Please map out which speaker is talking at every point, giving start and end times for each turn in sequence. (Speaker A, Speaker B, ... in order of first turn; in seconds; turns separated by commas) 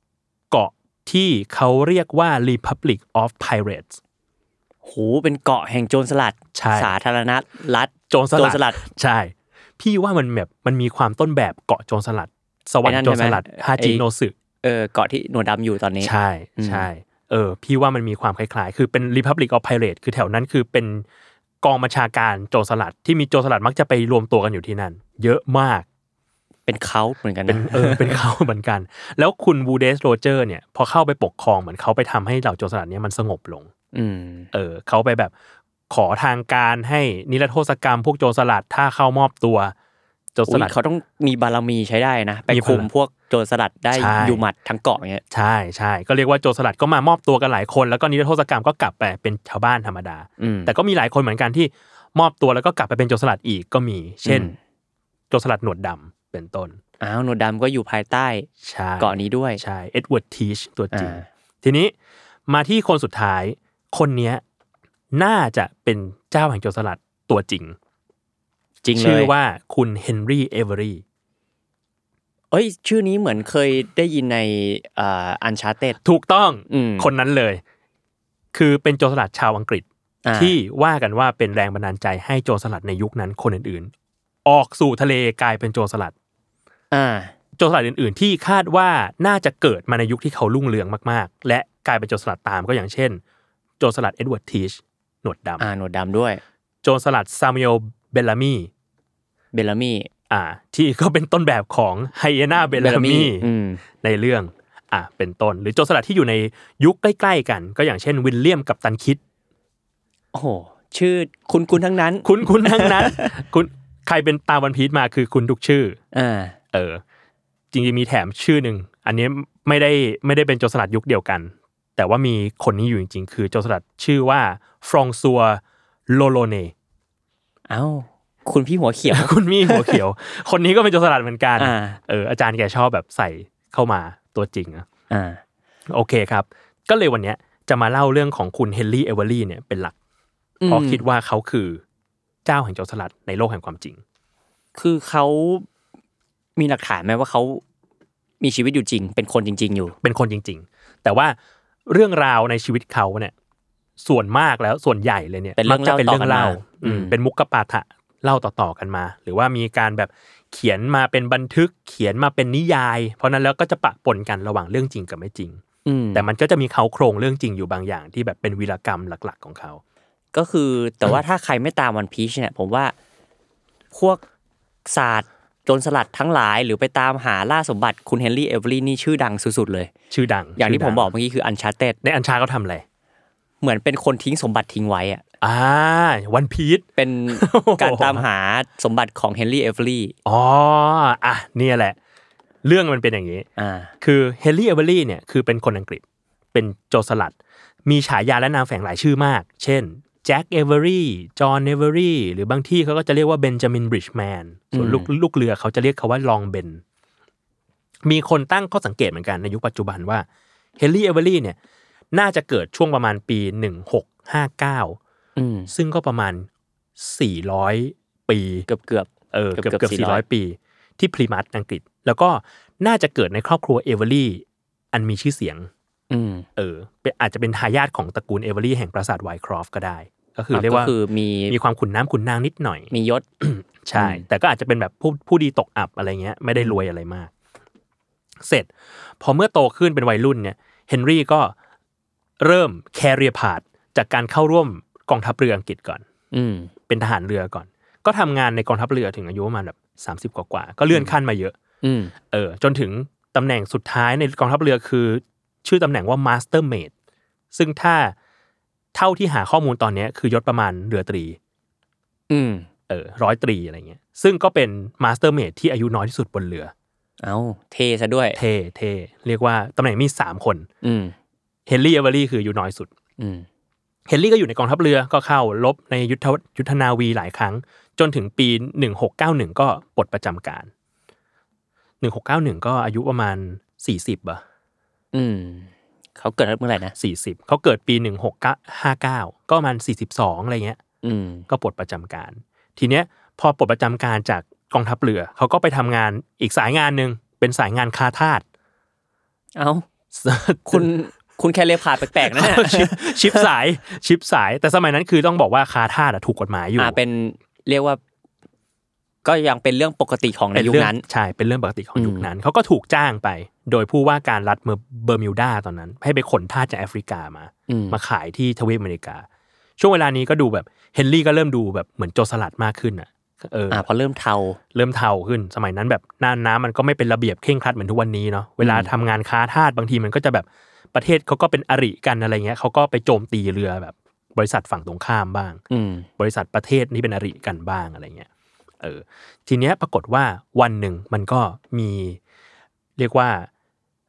Speaker A: 0.5-4.0, Speaker B: 4.8-8.8, Speaker A: 6.5-6.9, Speaker A: 8.1-14.3, Speaker B: 12.8-14.0, Speaker B: 14.6-16.9, Speaker A: 16.0-21.1, Speaker A: 21.6-25.9, Speaker B: 26.7-28.2, Speaker A: 27.5-33.7, Speaker B: 33.9-34.5, Speaker A: 34.5-35.3, Speaker A: 35.9-39.7, Speaker A: 40.4-40.7, Speaker B: 40.5-45.2, Speaker A: 42.5-42.9, Speaker A: 43.9-44.4, Speaker A: 45.3-54.5, Speaker B: 50.4-50.7, Speaker B: 54.2-54.6, Speaker A: 55.3-56.8, Speaker B: 57.0-58.5, Speaker A: 58.6-61.9, Speaker B: 59.0-59.6, Speaker B: 60.9-61.2, Speaker A: 62.5-64.4, Speaker A: 65.1-67.8, Speaker B: 68.8-69.3, Speaker A: 68.9-71.0, Speaker B: 72.5-76.0, Speaker A: 76.0-77.6, Speaker B: 76.7-77.1, Speaker A: 78.5-83.9, Speaker B: 80.2-80.6, Speaker A: 84.4-86.1, Speaker B: 86.9-87.3, Speaker A: 87.6-93.2, Speaker A: 93.8-95.7, Speaker B: 95.6-96.4, Speaker A: 96.8-98.7, Speaker B: 99.5-100.1, Speaker A: 100.3-103.5, Speaker B: 102.7-103.8, Speaker A: 104.0-109.2, Speaker B: 110.3-113.3, Speaker A: 112.2-116.0, Speaker B: 116.1-116.5, Speaker A: 116.7-117.0, Speaker A: 117.7-126.7, Speaker B: 127.7-130.0, Speaker A: 129.1-134.8, Speaker B: 131.6-132.0, Speaker B: 135.1-135.4, Speaker A: 135.9-139.9, Speaker B: 140.6-141.0, Speaker A: 140.7-141.8, Speaker A: 142.4-144.0, Speaker B: 144.7-145.7, Speaker B: 146.6-147.6, Speaker B: 148.4-149.9, Speaker A: 150.0-153.3, Speaker A: 154.0-165.6, Speaker B: 155.6-157.1, Speaker B: 165.8-166.2, Speaker A: 166.1-169.8, Speaker B: 170.3-172.9, Speaker B: 173.9-174.2, Speaker B: 174.8-179.9, Speaker A: 180.1-181.1, Speaker B: 180.6-182.0, Speaker A: 182.0-182.8, Speaker B: 183.6-185.2, Speaker A: 185.4-188.2, Speaker B: 187.0-190.1, Speaker A: 190.2-192.0, Speaker A: 192.6-193.4, Speaker B: 193.6-193.9, Speaker A: 194.0-196.0, Speaker A: 196.5-206.8, Speaker B: 204.7-205.1, Speaker A: 208.0-210.2, Speaker A: 210.8-211.6, Speaker A: 212.1-215.0, Speaker B: 215.4-215.7, Speaker A: 215.7-218.7, Speaker B: 218.7-220.2, Speaker A: 219.3-225.7, Speaker B: 226.1-226.5, Speaker A: 226.6-230.9, Speaker B: 230.5-231.5, Speaker A: 231.5-237.3, Speaker B: 232.9-233.2, Speaker B: 233.9-234.2, Speaker A: 238.4-241.5, Speaker A: 242.4-246.0, Speaker B: 246.3-246.7, Speaker A: 246.9-251.5, Speaker B: 251.8-252.1, Speaker A: 252.3-256.9, Speaker A: 257.5-258.1, Speaker A: 258.9-261.4, Speaker B: 262.3-262.7, Speaker A: 262.9-266.7, Speaker B: 267.2-268.4, Speaker A: 268.4-270.7, Speaker B: 270.8-271.1, Speaker A: 271.7-272.9, Speaker B: 273.2-273.5, Speaker A: 274.1-280.7, Speaker A: 282.0-284.4, Speaker B: 285.1-286.9, Speaker A: 287.0-290.8, Speaker B: 291.0-291.5, Speaker A: 291.5-298.4, Speaker B: 299.6-299.8, Speaker A: 300.1-300.9, Speaker B: 300.7-303.5, Speaker A: 302.1-307.0, Speaker B: 306.8-308.0, Speaker B: 309.2-311.0, Speaker A: 310.5-319.2, Speaker B: 311.9-312.3, Speaker B: 317.7-318.0, Speaker A: 319.8-323.8, Speaker B: 323.7-324.6, Speaker A: 324.7-335.6, Speaker B: 328.6-328.9, Speaker B: 335.7-336.1, Speaker A: 336.2-338.3, Speaker A: 338.8-342.2, Speaker A: 343.0-343.5